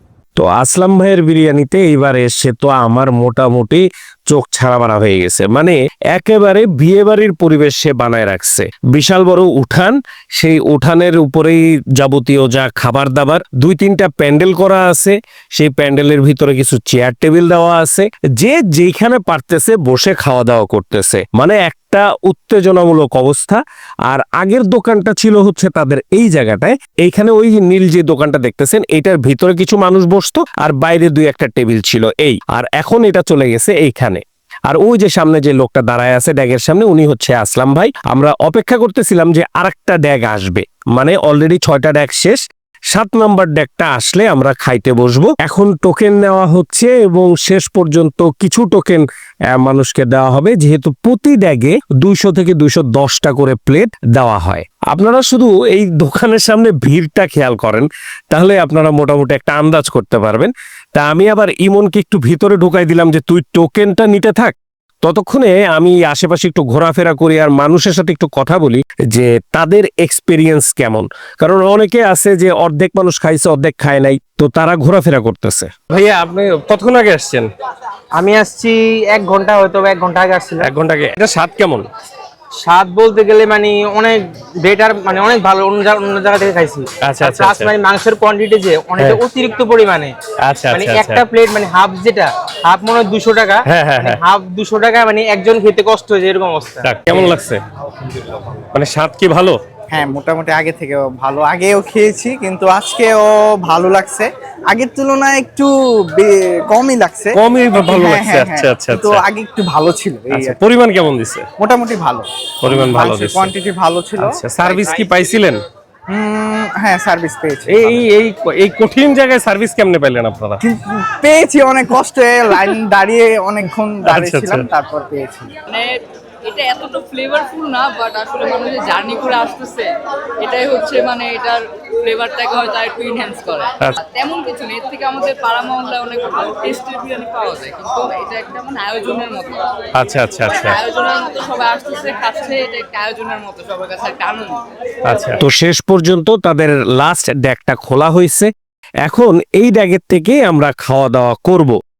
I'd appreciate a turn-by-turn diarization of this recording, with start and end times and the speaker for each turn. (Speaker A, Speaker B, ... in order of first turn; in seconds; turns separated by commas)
Speaker A: 0.4-75.7, Speaker B: 75.9-77.5, Speaker C: 78.1-80.7, Speaker B: 80.6-81.9, Speaker C: 82.6-90.1, Speaker B: 87.0-87.7, Speaker B: 90.4-91.2, Speaker C: 90.7-97.2, Speaker B: 93.7-94.2, Speaker B: 96.8-97.6, Speaker B: 98.7-99.6, Speaker D: 99.9-110.6, Speaker B: 107.3-109.2, Speaker B: 110.3-111.5, Speaker D: 111.6-114.9, Speaker B: 112.6-113.5, Speaker B: 114.2-115.6, Speaker D: 116.1-118.0, Speaker B: 117.7-120.6, Speaker D: 120.6-125.5, Speaker B: 124.1-124.7, Speaker E: 125.7-139.8, Speaker B: 140.0-140.8, Speaker E: 140.4-144.6, Speaker B: 145.1-145.4, Speaker A: 145.4-148.5, Speaker A: 149.1-151.8